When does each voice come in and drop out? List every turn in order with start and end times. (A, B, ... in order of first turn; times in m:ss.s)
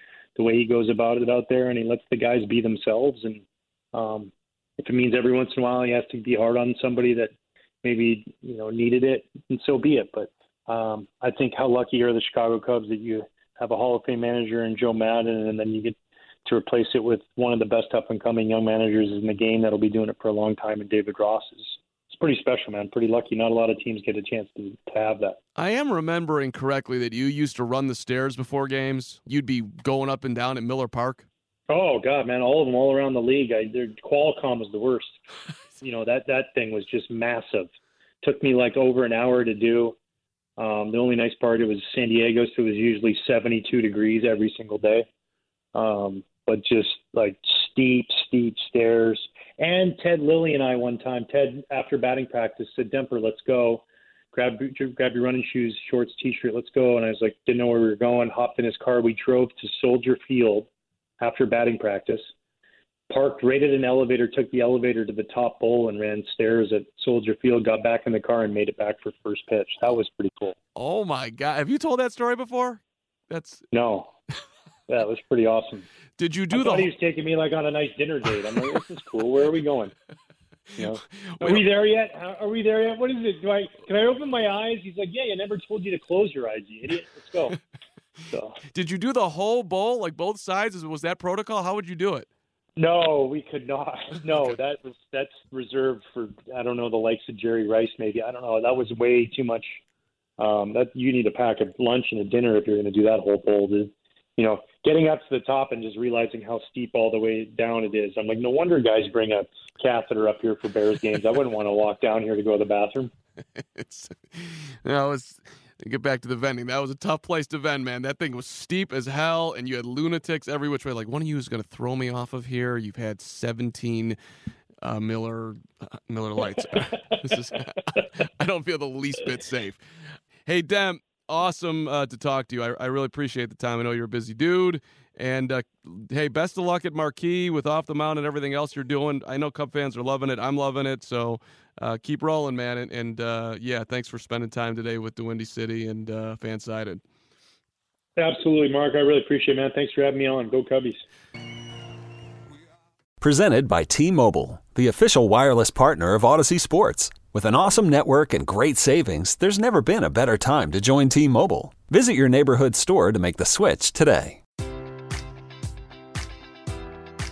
0:00.4-0:25.4 A
0:25.6-0:31.3 B
0:31.7-0:35.2 A
0:35.8-0:37.7 A
0:38.2-0:40.0 A
0:40.6-0:45.1 A
0:45.7-1:00.7 A
1:01.2-1:02.3 A
1:03.1-1:10.6 A
1:10.8-1:13.6 B
1:13.7-1:14.1 A
1:14.9-1:15.9 A
1:16.2-1:16.9 B
1:16.5-1:19.9 A
1:20.8-1:27.6 A
1:21.3-1:21.6 B
1:28.3-1:28.6 A
1:28.7-1:32.3 B
1:32.8-1:39.8 A
1:40.4-1:53.1 A
1:53.6-2:04.2 B
2:04.8-2:09.8 B
2:10.4-2:27.0 B
2:28.2-2:31.0 A
2:33.2-2:44.4 C